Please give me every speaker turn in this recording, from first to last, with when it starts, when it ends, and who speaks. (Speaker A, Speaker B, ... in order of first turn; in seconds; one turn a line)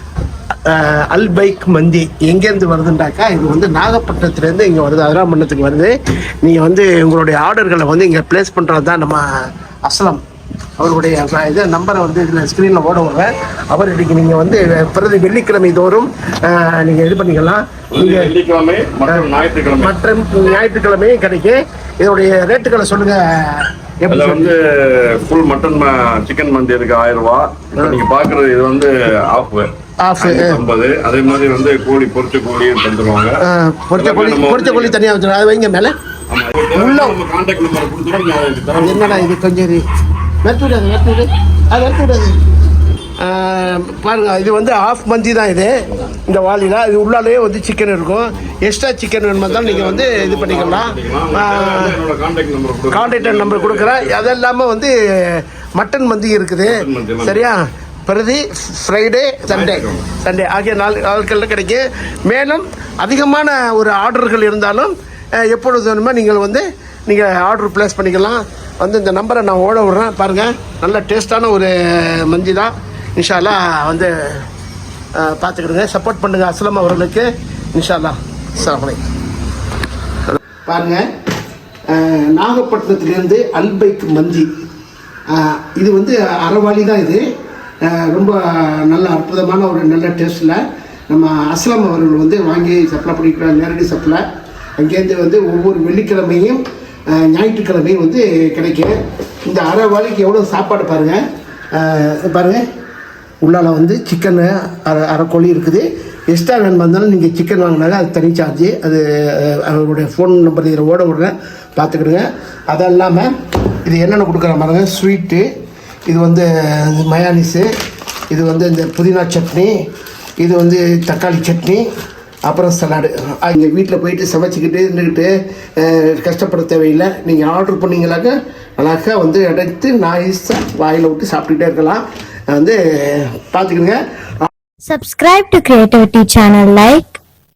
Speaker A: 0.7-9.2
Speaker A: 9.8-10.2
Speaker A: 10.8-18.3
Speaker B: 17.9-19.9
Speaker A: 19.1-24.5
Speaker B: 24.1-29.7
Speaker A: 30.0-30.6
Speaker B: 30.2-33.3
Speaker A: 33.4-35.9
Speaker B: 33.9-35.0
Speaker B: 36.3-39.3
Speaker A: 36.7-37.2
Speaker A: 38.8-39.8
Speaker A: 40.4-42.3
Speaker A: 43.2-52.0
Speaker B: 49.4-54.2
Speaker A: 52.9-74.4
Speaker B: 56.6-57.4
Speaker B: 59.5-60.0
Speaker A: 75.2-79.0
Speaker A: 80.3-81.0
Speaker A: 81.9-84.5
Speaker A: 85.3-87.2
Speaker A: 87.8-94.2
Speaker A: 94.8-98.9
Speaker A: 99.5-101.2
Speaker A: 101.7-102.6
Speaker A: 103.4-113.3
Speaker A: 113.8-115.4
Speaker A: 116.1-117.7
Speaker A: 118.3-119.7
Speaker A: 120.4-121.8
Speaker A: 122.5-134.5
Speaker C: 134.8-137.2